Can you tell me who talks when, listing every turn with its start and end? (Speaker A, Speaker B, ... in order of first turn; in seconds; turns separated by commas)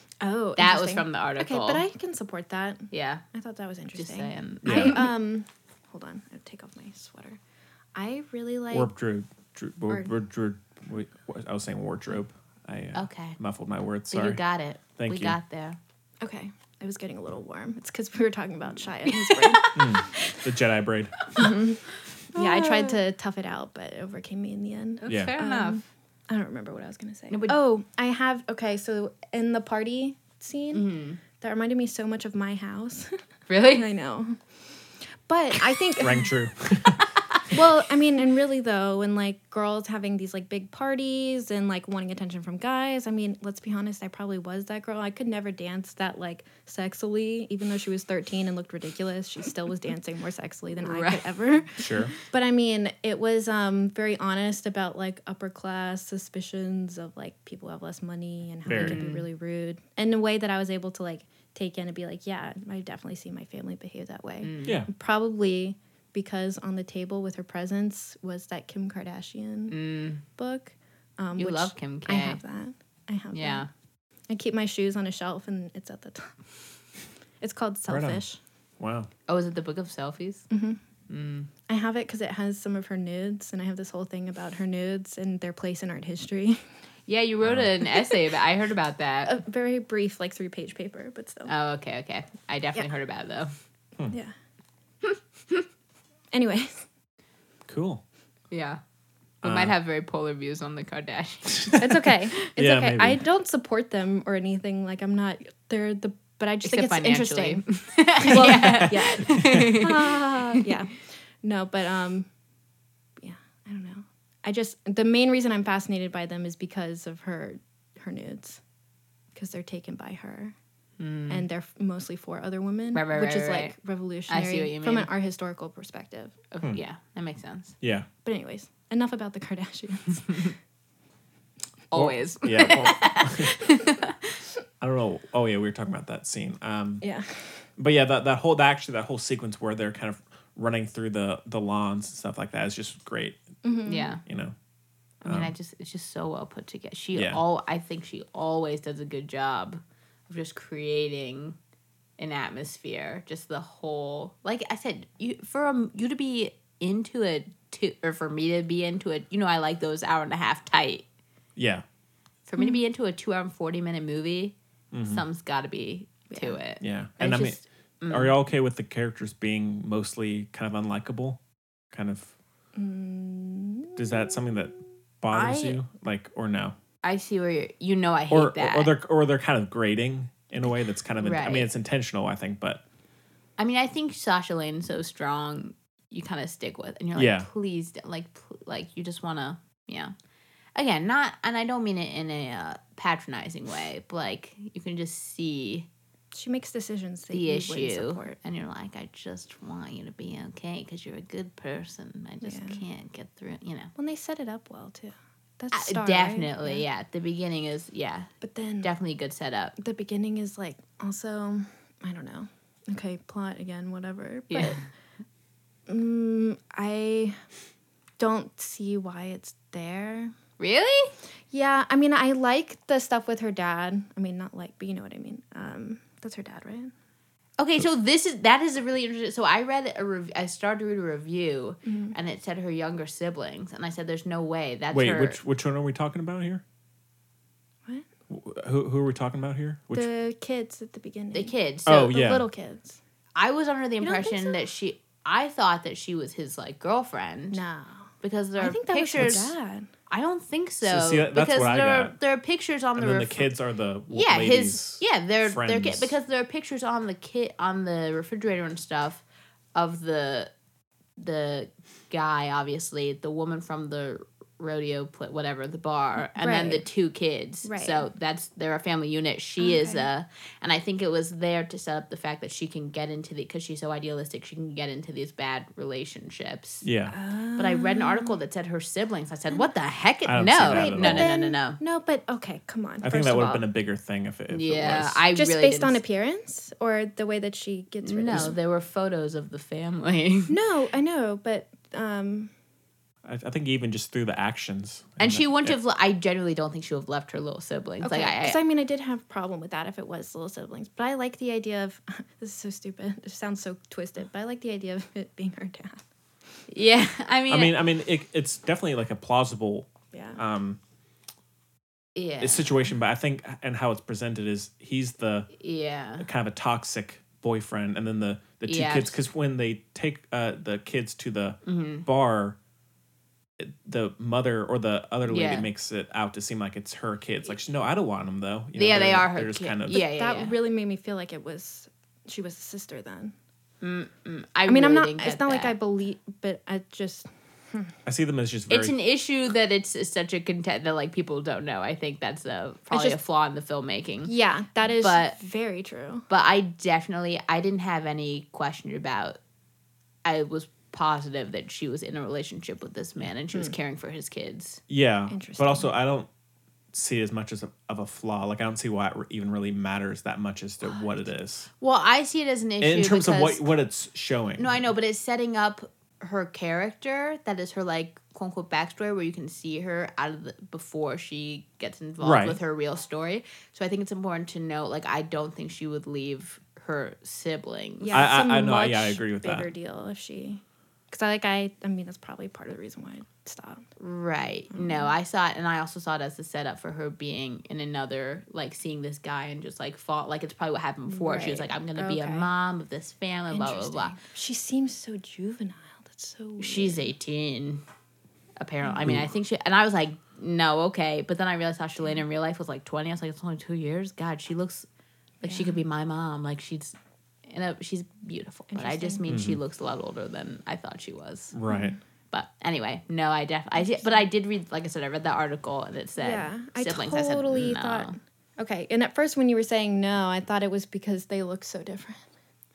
Speaker A: 0.2-7.4, Speaker B: 0.6-1.8, Speaker B: 2.9-3.2, Speaker B: 3.9-5.1, Speaker C: 4.6-5.0, Speaker A: 7.9-8.9, Speaker C: 8.7-15.4, Speaker B: 12.9-13.4, Speaker B: 14.1-15.8, Speaker A: 16.2-19.7, Speaker B: 19.1-20.4, Speaker C: 19.7-21.3, Speaker A: 21.4-34.4, Speaker B: 22.3-23.0, Speaker B: 25.0-25.8, Speaker C: 25.1-25.3, Speaker B: 27.3-27.6, Speaker B: 30.7-31.2, Speaker B: 33.5-33.9, Speaker A: 35.2-36.3, Speaker C: 36.0-37.0, Speaker A: 37.5-73.7, Speaker B: 50.8-51.4, Speaker C: 51.8-52.1, Speaker C: 58.6-59.0, Speaker B: 58.7-59.3, Speaker B: 64.4-64.8, Speaker C: 64.6-64.9, Speaker B: 69.7-70.2, Speaker B: 71.3-72.4, Speaker B: 73.3-73.7, Speaker A: 74.3-76.4, Speaker A: 77.4-78.4, Speaker C: 77.9-78.2, Speaker C: 78.8-79.1, Speaker B: 79.3-80.4, Speaker A: 80.5-80.8, Speaker B: 81.1-81.5, Speaker A: 81.7-86.6, Speaker B: 87.1-89.4, Speaker C: 87.4-87.7, Speaker A: 89.2-91.5, Speaker B: 91.5-93.5, Speaker B: 95.1-95.6, Speaker A: 96.3-96.8, Speaker C: 97.7-98.0, Speaker B: 98.5-98.8, Speaker B: 99.4-101.7, Speaker C: 99.4-99.7, Speaker C: 101.6-101.9, Speaker A: 101.8-112.3, Speaker C: 102.5-103.2, Speaker B: 106.6-110.6, Speaker C: 108.6-109.6, Speaker A: 113.2-118.6, Speaker A: 119.3-120.5, Speaker B: 121.0-121.5, Speaker A: 121.3-126.3, Speaker B: 122.9-123.7, Speaker B: 124.3-125.1, Speaker B: 126.5-127.7, Speaker C: 127.8-128.1, Speaker A: 128.2-130.5, Speaker B: 131.9-134.3, Speaker C: 131.9-133.5, Speaker C: 134.8-137.0, Speaker A: 137.0-137.6, Speaker C: 137.8-143.4, Speaker A: 143.6-144.2, Speaker B: 143.8-144.2, Speaker C: 144.2-144.5, Speaker B: 145.2-151.6, Speaker C: 145.2-145.5, Speaker C: 147.1-147.4, Speaker B: 152.2-161.0, Speaker C: 161.6-161.8, Speaker B: 162.5-164.5, Speaker C: 164.9-165.2, Speaker B: 165.1-168.3, Speaker A: 166.3-166.6, Speaker C: 166.8-171.4, Speaker A: 167.2-167.5, Speaker C: 171.9-172.3, Speaker A: 172.7-174.3, Speaker C: 174.0-176.8, Speaker B: 175.3-175.8, Speaker B: 177.0-178.9, Speaker C: 178.3-182.8, Speaker B: 181.2-181.7, Speaker B: 183.6-190.1, Speaker C: 187.1-187.5, Speaker B: 190.8-195.9, Speaker A: 196.3-198.4, Speaker B: 197.3-203.9, Speaker A: 202.4-202.8, Speaker A: 203.9-206.8, Speaker B: 205.7-208.3, Speaker A: 208.4-208.9, Speaker B: 208.8-209.7, Speaker A: 209.8-214.8, Speaker B: 214.5-214.8, Speaker A: 215.9-217.4, Speaker A: 218.2-220.3, Speaker B: 220.6-221.1, Speaker A: 221.5-226.9, Speaker B: 227.6-235.4, Speaker A: 231.8-232.1, Speaker C: 234.9-236.6, Speaker C: 238.3-240.1, Speaker A: 239.9-243.0, Speaker B: 241.3-242.1, Speaker C: 241.8-242.5, Speaker B: 243.3-247.6, Speaker A: 244.0-244.6, Speaker A: 247.5-249.9, Speaker B: 248.2-249.5, Speaker C: 249.2-249.4, Speaker B: 250.1-253.5, Speaker C: 250.8-252.1, Speaker C: 252.9-256.1, Speaker B: 254.1-259.2, Speaker B: 259.7-260.5, Speaker B: 261.2-276.8, Speaker A: 266.4-266.9, Speaker A: 267.6-268.0, Speaker A: 269.6-270.1, Speaker C: 276.8-277.1, Speaker A: 277.1-278.4, Speaker B: 277.6-281.8, Speaker C: 280.2-281.3, Speaker A: 280.6-283.6, Speaker C: 283.0-285.2, Speaker B: 284.5-286.0, Speaker A: 285.3-288.6, Speaker B: 288.0-290.5, Speaker A: 290.5-292.5, Speaker C: 293.2-295.8, Speaker B: 295.2-298.6, Speaker A: 298.0-306.0, Speaker B: 306.7-307.7, Speaker C: 307.5-310.8, Speaker A: 310.1-310.4, Speaker B: 312.1-312.8, Speaker C: 312.4-315.5, Speaker B: 315.5-316.3, Speaker C: 316.2-322.6, Speaker B: 318.6-319.2, Speaker B: 321.6-322.1, Speaker C: 323.6-330.0, Speaker B: 325.2-325.7, Speaker B: 328.8-330.6, Speaker A: 329.9-333.3, Speaker B: 333.8-335.7, Speaker A: 334.7-337.9, Speaker C: 338.1-338.9, Speaker B: 338.7-345.4, Speaker A: 342.9-343.2, Speaker A: 344.2-346.2, Speaker B: 346.3-349.4, Speaker B: 350.2-354.8, Speaker C: 354.9-356.3, Speaker A: 355.3-355.9, Speaker C: 356.9-361.7, Speaker A: 360.9-361.2, Speaker B: 361.8-363.7, Speaker C: 362.8-364.8, Speaker B: 364.6-378.1, Speaker C: 372.2-372.6, Speaker A: 378.0-383.8, Speaker C: 378.1-379.7, Speaker B: 384.0-394.2, Speaker A: 384.7-385.1, Speaker A: 391.1-392.5, Speaker A: 393.5-397.1, Speaker B: 396.6-397.8, Speaker B: 398.6-404.9, Speaker A: 398.8-399.1, Speaker A: 405.4-405.8, Speaker B: 405.4-406.9, Speaker B: 407.5-411.5, Speaker A: 408.7-409.2, Speaker C: 409.3-409.6, Speaker C: 411.5-411.9, Speaker A: 411.7-412.0, Speaker B: 412.3-418.2, Speaker A: 413.8-414.2, Speaker A: 416.2-422.2